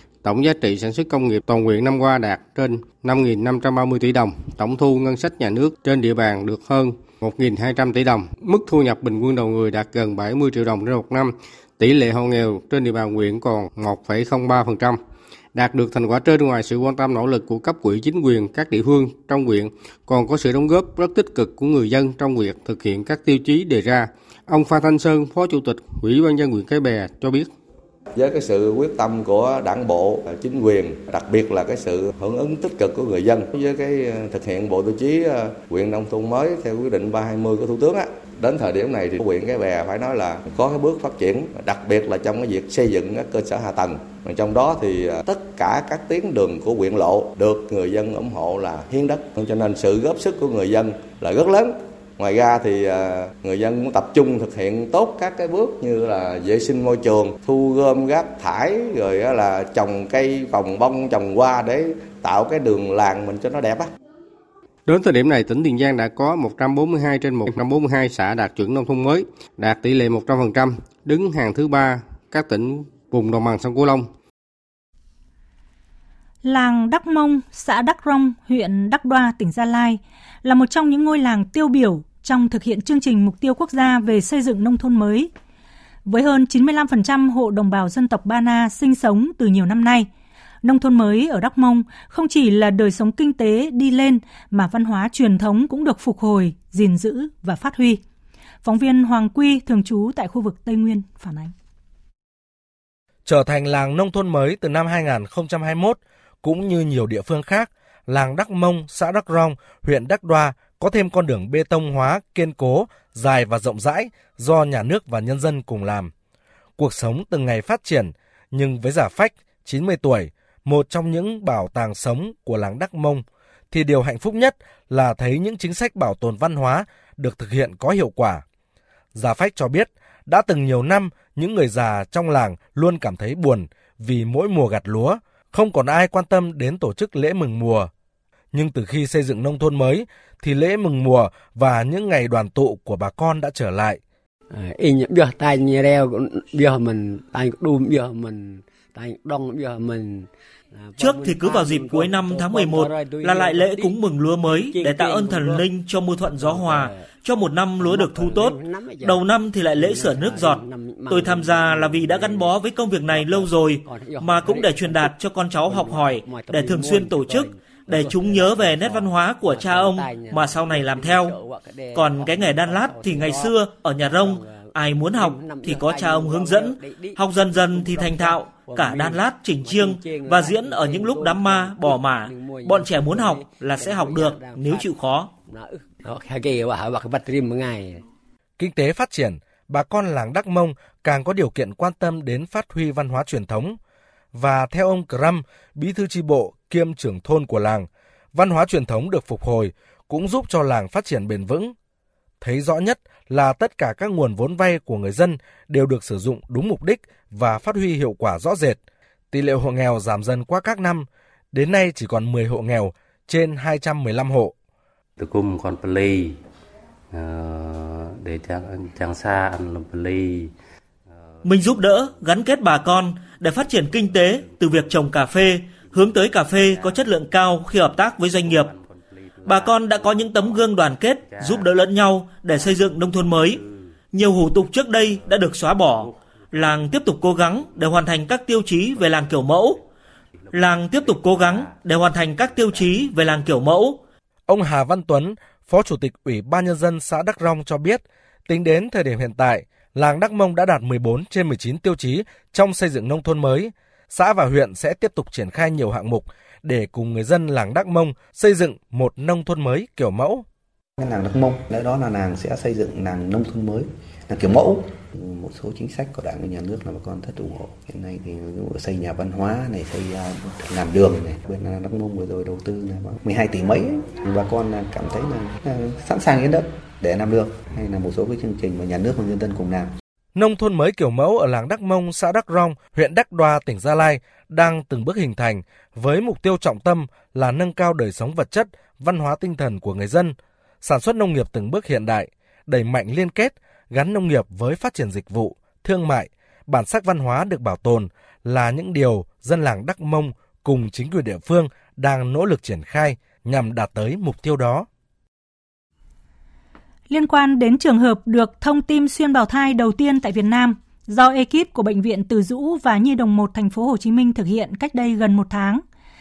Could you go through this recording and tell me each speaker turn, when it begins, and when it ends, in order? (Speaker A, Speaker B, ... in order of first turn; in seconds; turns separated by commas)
Speaker A: 0.2-15.0, Speaker A: 15.5-27.5, Speaker B: 28.1-63.9, Speaker A: 64.9-74.1, Speaker C: 76.4-85.3, Speaker C: 86.0-90.1, Speaker C: 90.6-98.0, Speaker C: 98.6-101.5, Speaker D: 103.2-116.1, Speaker D: 116.8-128.4, Speaker D: 129.1-137.9, Speaker D: 138.5-144.0, Speaker E: 144.5-154.0, Speaker F: 151.0-158.5, Speaker E: 154.7-155.6, Speaker E: 156.4-157.1, Speaker E: 157.8-162.5, Speaker F: 159.1-160.6, Speaker F: 161.1-171.3, Speaker E: 163.1-165.1, Speaker E: 165.7-184.9, Speaker F: 171.9-185.3, Speaker E: 185.5-188.0, Speaker D: 188.6-193.8, Speaker D: 194.3-201.7, Speaker D: 202.4-208.8, Speaker D: 209.3-214.5, Speaker G: 215.2-216.3, Speaker G: 217.1-220.4, Speaker F: 221.5-228.6, Speaker G: 228.4-228.7, Speaker F: 229.4-231.2, Speaker G: 231.3-231.7, Speaker F: 232.0-233.5, Speaker F: 234.2-236.0, Speaker F: 236.6-239.7, Speaker F: 240.6-243.9, Speaker D: 244.5-260.4, Speaker H: 261.0-279.9, Speaker D: 280.4-304.8, Speaker C: 307.1-315.8